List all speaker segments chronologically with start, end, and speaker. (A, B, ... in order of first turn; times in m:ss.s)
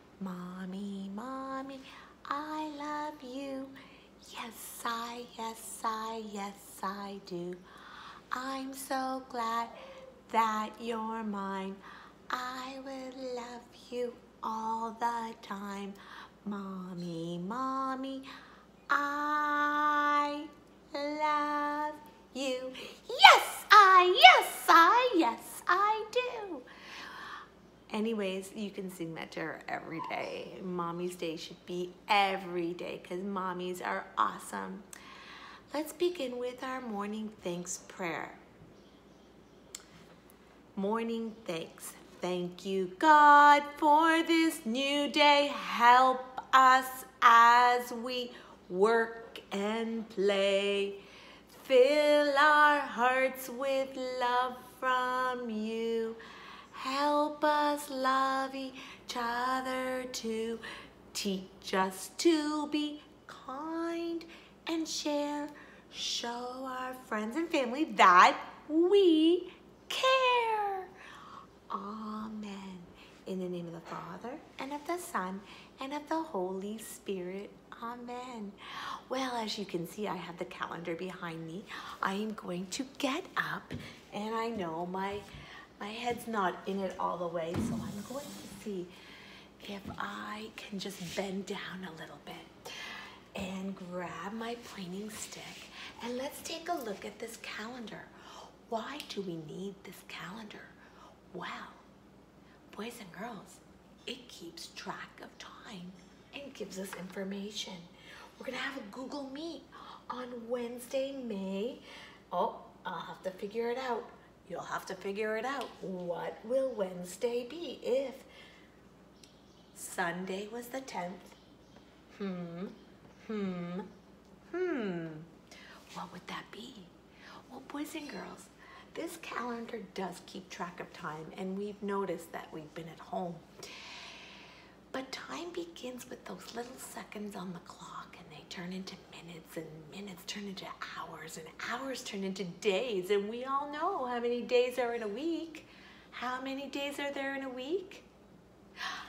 0:00.2-0:07.6 A
0:08.3-0:09.7 A
0:10.3-0:18.3 A
0:18.9-0:26.6 A
0:27.9-0:34.9 A
0:35.7-0:38.4 A
0:40.8-0:56.2 A
0:56.7-1:10.9 A
1:11.7-1:25.3 A
1:25.8-1:28.9 A
1:29.6-1:38.1 A
1:38.7-1:40.8 A
1:41.3-1:41.8 A
1:42.7-1:58.3 A
1:59.7-2:01.4 A
2:02.1-2:03.9 A
2:04.5-2:05.3 A
2:05.9-2:06.9 A
2:07.5-2:13.9 A
2:14.9-2:28.1 A